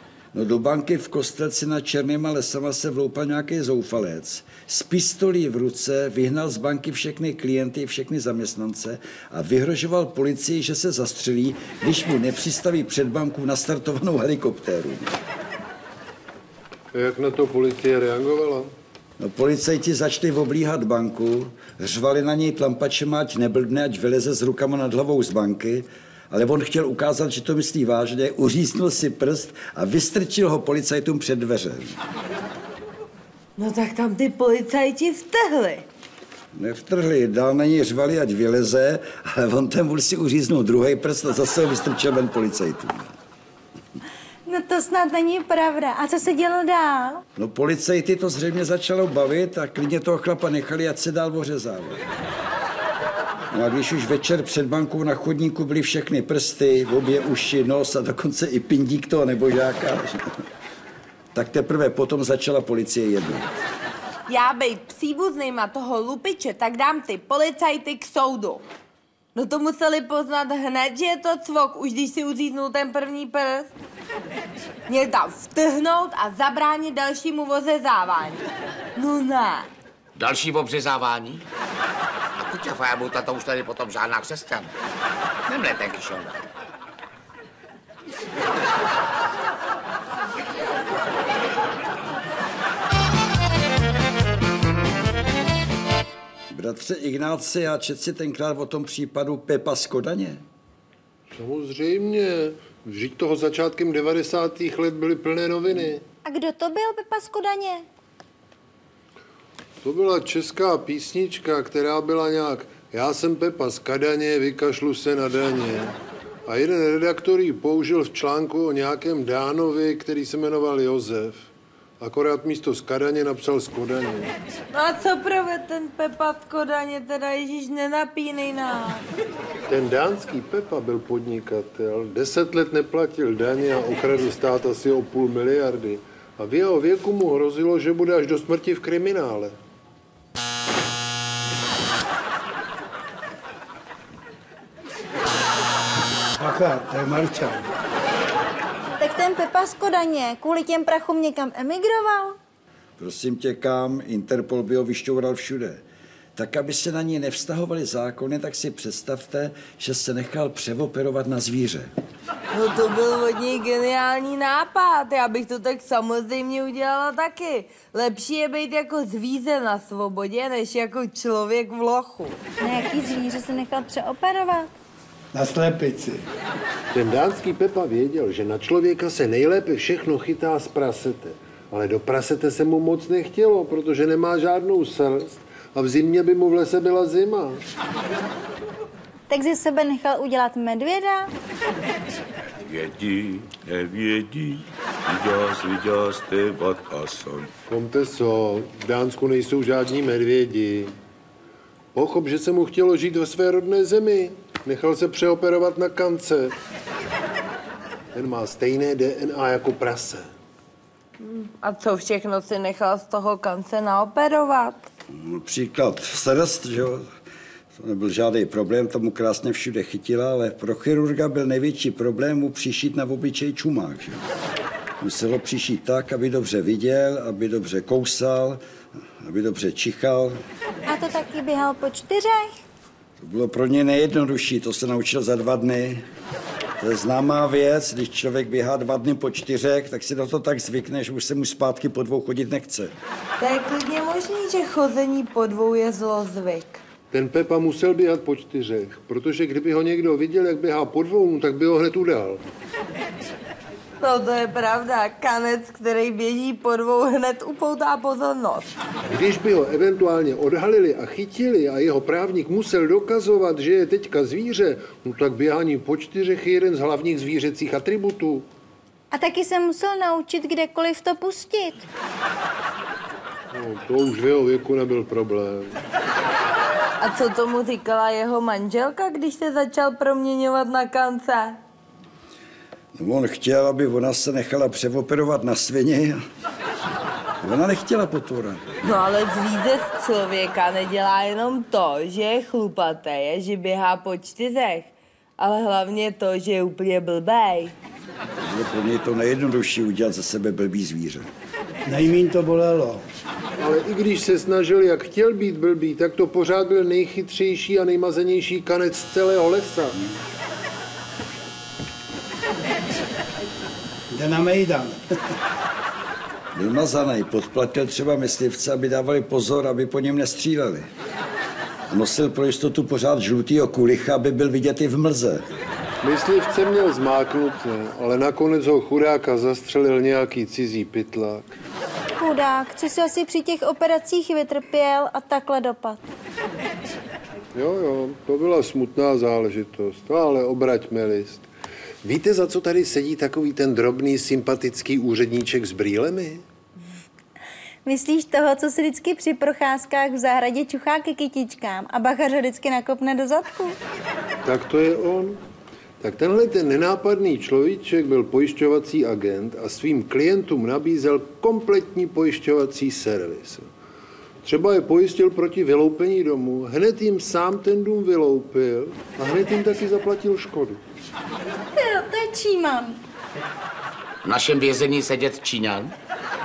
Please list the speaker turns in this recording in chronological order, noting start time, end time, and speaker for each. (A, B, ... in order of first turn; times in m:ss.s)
0:00.3-0:15.2 A
0:16.9-0:18.7 B
0:19.2-0:32.0 A
0:33.6-0:35.8 C
0:36.5-0:43.1 A
0:44.4-0:47.2 D
0:47.4-0:52.0 A
0:53.5-1:00.4 A
1:01.3-1:03.5 A
1:04.3-1:08.6 C
1:09.3-1:13.7 C
1:14.9-1:18.4 C
1:19.0-1:19.7 C
1:20.2-1:21.4 E
1:22.4-1:24.7 E
1:25.5-1:26.4 E
1:36.5-1:40.4 A
1:41.3-1:46.0 B
1:46.2-1:47.8 D
1:49.8-1:56.0 B
1:56.5-2:01.4 B
2:02.0-2:04.3 B
2:04.7-2:09.0 C
2:09.7-2:19.6 B
2:26.4-2:27.7 F
2:29.0-2:32.4 D
2:33.0-2:35.8 A
2:36.4-2:41.9 A
2:42.5-2:52.4 C
2:52.6-2:54.7 D
2:55.3-2:56.2 F
2:56.9-3:07.6 B
3:09.3-3:11.3 D
3:12.6-3:17.5 G
3:17.7-3:20.9 B
3:21.9-3:26.5 B
3:28.1-3:30.3 B
3:31.2-3:34.8 C
3:35.1-3:37.1 A
3:37.8-3:44.2 A
3:45.0-3:48.6 A
3:49.2-3:50.4 A
3:50.9-3:52.6 D
3:53.2-3:56.1 A
3:56.8-4:03.0 A
4:03.4-4:06.8 C
4:07.1-4:12.4 B
4:14.0-4:18.7 C
4:19.1-4:28.5 B
4:29.1-4:31.8 D
4:33.5-4:35.8 B
4:37.0-4:41.6 C
4:42.9-4:46.2 A
4:47.4-4:48.6 A
4:48.8-4:57.7 C
4:58.4-5:01.3 A
5:01.8-5:03.0 F
5:03.6-5:10.0 B
5:14.1-5:15.0 F
5:16.5-5:20.9 A
5:21.9-5:25.5 A
5:26.0-5:31.5 B
5:32.2-5:36.0 D
5:37.5-5:41.5 B
5:42.0-5:46.4 B
5:47.8-5:53.8 D
5:54.4-5:55.4 B
5:56.0-6:03.7 B
6:04.4-6:10.8 B
6:11.7-6:13.0 D
6:14.2-6:15.9 E